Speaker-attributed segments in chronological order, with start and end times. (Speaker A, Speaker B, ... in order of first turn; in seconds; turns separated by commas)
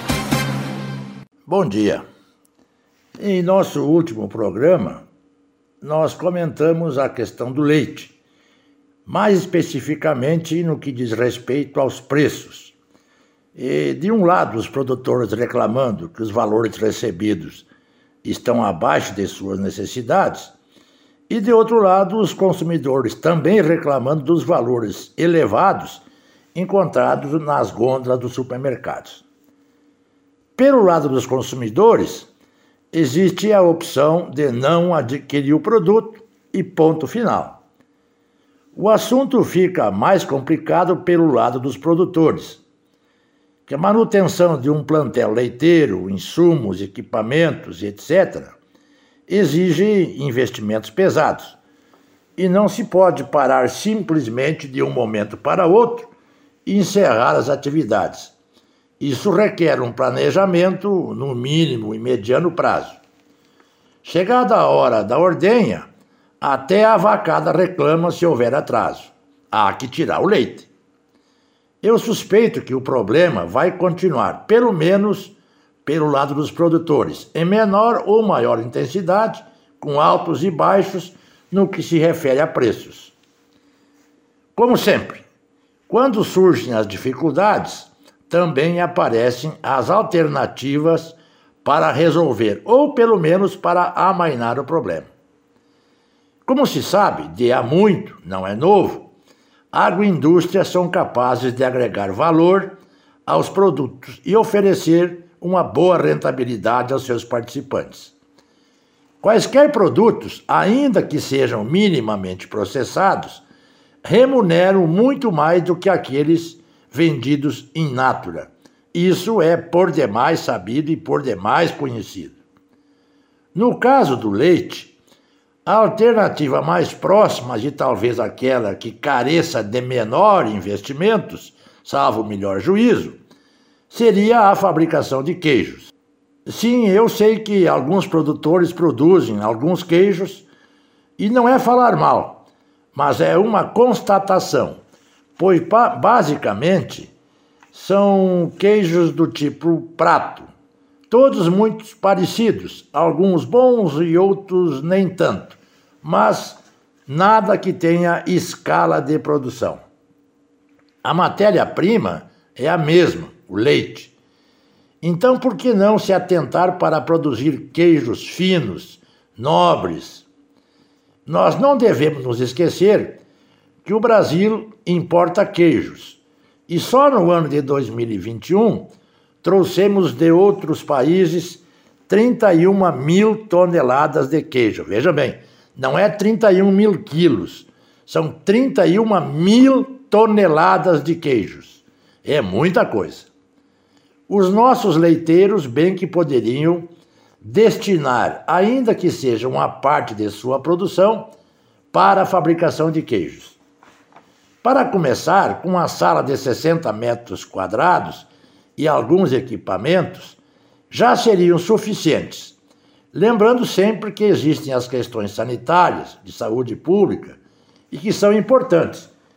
Speaker A: 1.5-2.0, Speaker A: 3.2-5.0, Speaker A: 5.8-8.2, Speaker A: 9.1-12.7, Speaker A: 13.6-17.7, Speaker A: 18.2-20.5, Speaker A: 21.3-26.0, Speaker A: 26.6-29.2, Speaker A: 30.6-32.3, Speaker A: 32.9-37.6, Speaker A: 38.7-42.6, Speaker A: 43.7-48.6, Speaker A: 49.3-51.6, Speaker A: 52.4-56.1, Speaker A: 56.7-58.3, Speaker A: 59.0-63.0, Speaker A: 64.0-65.9, Speaker A: 66.4-70.7, Speaker A: 71.8-83.1, Speaker A: 84.5-85.2, Speaker A: 85.9-95.1, Speaker A: 96.5-99.1, Speaker A: 99.7-108.2, Speaker A: 109.2-113.4, Speaker A: 114.0-122.4, Speaker A: 123.5-124.9, Speaker A: 125.7-133.2, Speaker A: 133.9-135.9, Speaker A: 136.5-140.5, Speaker A: 141.2-142.4, Speaker A: 142.9-144.8, Speaker A: 145.4-147.1, Speaker A: 147.7-150.5, Speaker A: 151.1-159.8, Speaker A: 161.0-164.1, Speaker A: 165.0-170.2, Speaker A: 171.2-173.2, Speaker A: 173.8-178.9, Speaker A: 179.4-193.3, Speaker A: 194.3-196.9, Speaker A: 197.4-201.3, Speaker A: 201.9-203.6, Speaker A: 204.6-210.4, Speaker A: 210.9-212.6, Speaker A: 213.1-217.4, Speaker A: 217.9-219.1